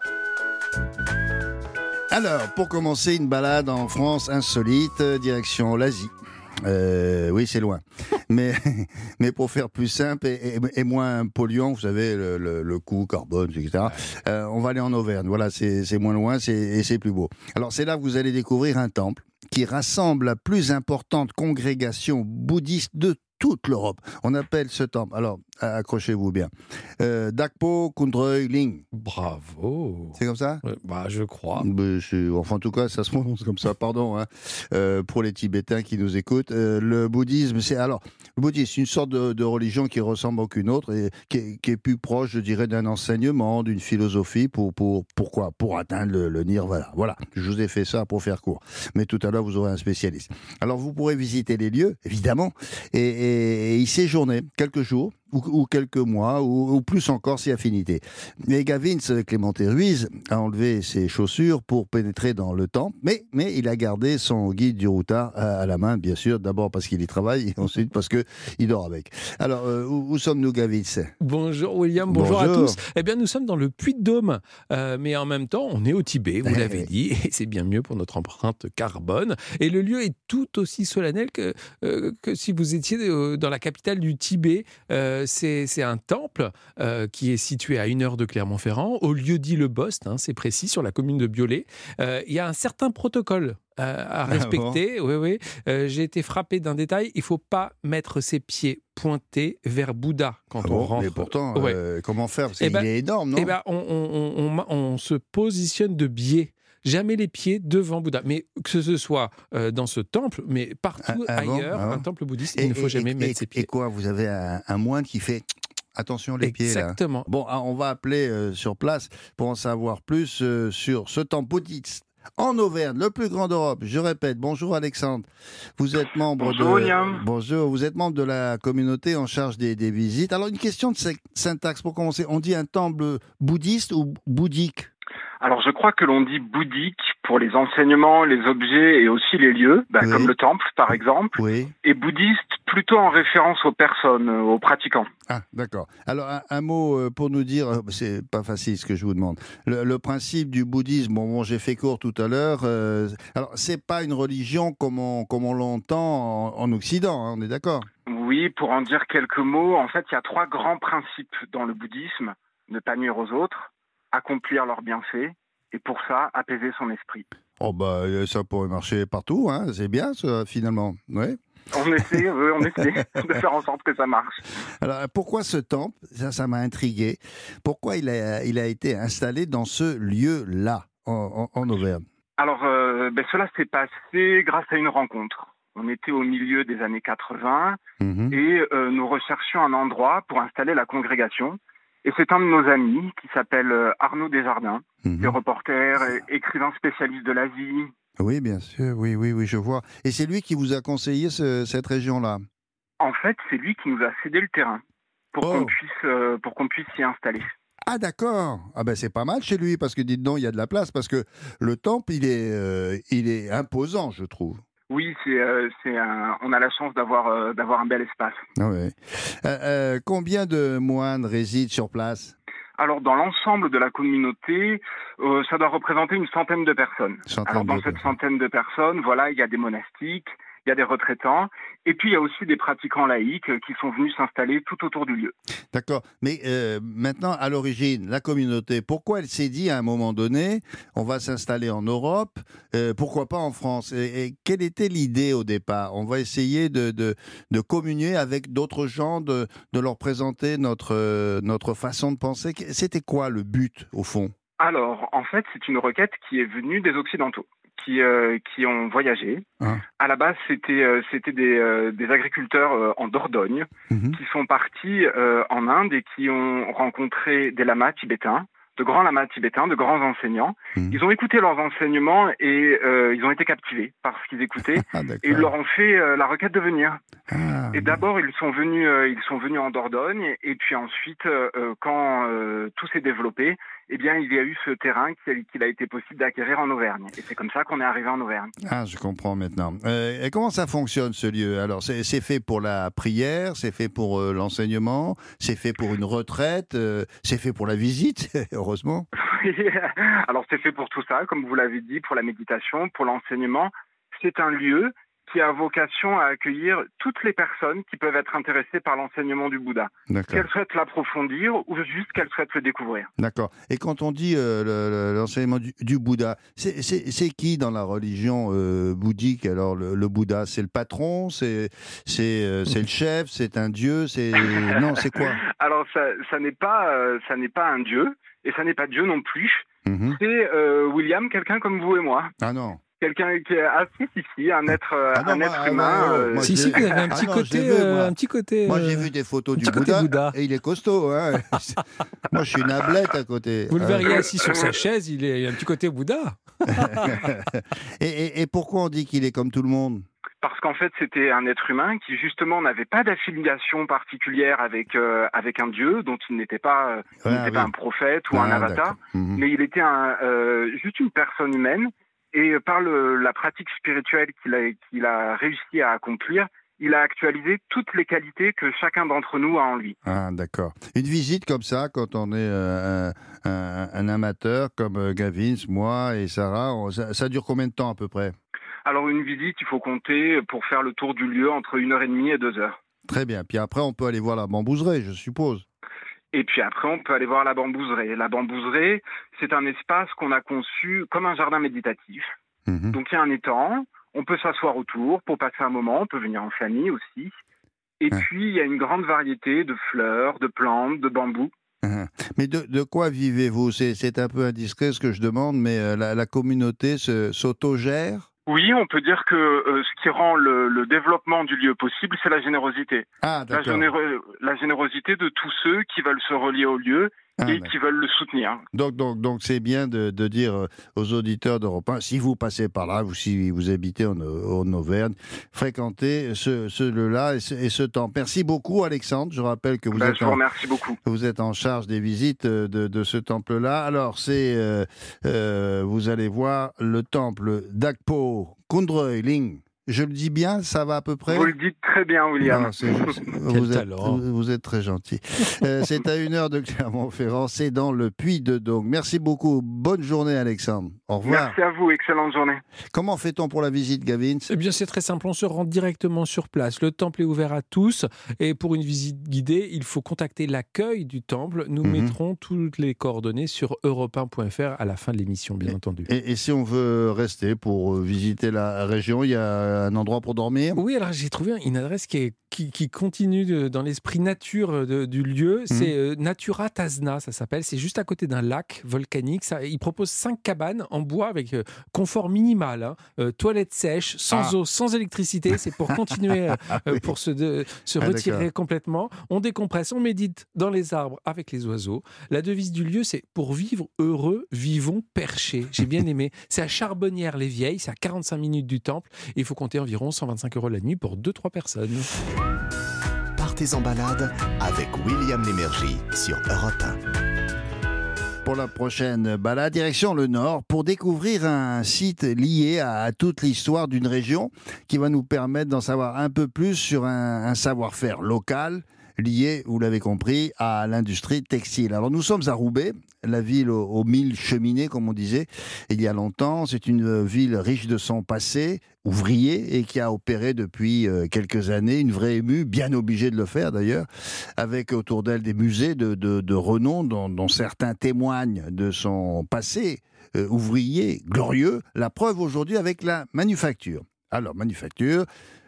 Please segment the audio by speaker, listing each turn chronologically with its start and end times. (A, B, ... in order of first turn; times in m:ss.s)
0:02.1-0:28.8 A
0:28.9-0:31.7 B
0:30.2-0:30.6 A
0:31.6-1:11.1 A
1:11.2-1:41.8 B
1:12.1-1:12.8 A
1:16.4-1:16.9 A
1:34.3-1:34.8 A
1:40.6-1:43.5 A
1:42.6-1:53.7 B
1:51.0-1:52.0 A
1:52.6-2:14.9 A
1:56.4-1:57.2 B
2:06.4-2:07.2 C
2:15.4-2:25.1 C
2:20.0-2:20.3 A
2:21.4-2:21.7 A
2:25.3-2:37.9 A
2:38.1-2:47.2 C
2:47.6-2:51.4 A
2:51.7-2:54.4 C
2:54.8-3:02.0 A
3:02.4-3:07.8 C
3:08.0-3:08.4 A
3:08.3-3:17.9 C
3:15.0-3:15.4 A
3:18.2-3:22.4 A
3:23.0-3:24.8 C
3:25.3-3:27.5 C
3:25.4-3:25.7 A
3:27.9-3:34.6 A
3:34.9-3:38.4 C
3:38.6-3:42.4 A
3:42.8-3:55.4 C
3:47.3-3:48.0 A
3:55.7-4:14.3 A
4:14.6-4:19.4 C
4:20.0-4:37.0 C
4:23.9-4:24.2 A
4:34.9-4:35.5 A
4:37.3-4:38.0 A
4:37.7-4:48.5 C
4:48.6-4:59.1 A
4:59.2-5:13.1 C
5:10.1-5:10.5 A
5:13.2-5:25.4 A
5:24.4-5:32.3 C
5:29.9-5:30.2 A
5:32.4-5:32.8 A
5:33.0-5:37.1 C
5:35.1-5:38.1 A
5:36.4-5:40.4 B
5:38.6-5:44.3 A
5:43.7-5:47.3 B
5:44.1-5:44.7 C
5:46.7-5:50.1 A
5:50.4-6:10.0 C
5:57.2-5:57.7 A
5:58.3-5:59.4 A
6:10.0-6:18.4 A
6:18.9-6:22.8 C
6:23.1-6:25.7 A
6:26.3-6:32.3 C
6:32.7-6:33.0 A
6:32.9-6:37.3 C
6:38.0-6:41.5 C
6:41.8-6:48.3 A
6:48.5-6:58.6 C
6:53.2-6:53.9 A
6:57.4-6:57.7 A
6:58.7-7:10.4 A
7:09.9-7:11.0 C
7:11.0-7:21.5 A
7:21.3-7:23.1 C
7:22.4-7:31.5 A
7:23.5-7:24.2 B
7:31.2-7:32.6 C
7:32.9-7:34.5 A
7:34.5-7:46.1 B
7:41.8-7:42.1 A
7:46.1-7:50.8 A
7:50.8-8:22.1 B
8:06.5-8:07.0 A
8:08.0-8:08.4 A
8:23.4-8:27.0 D
8:28.4-9:05.2 A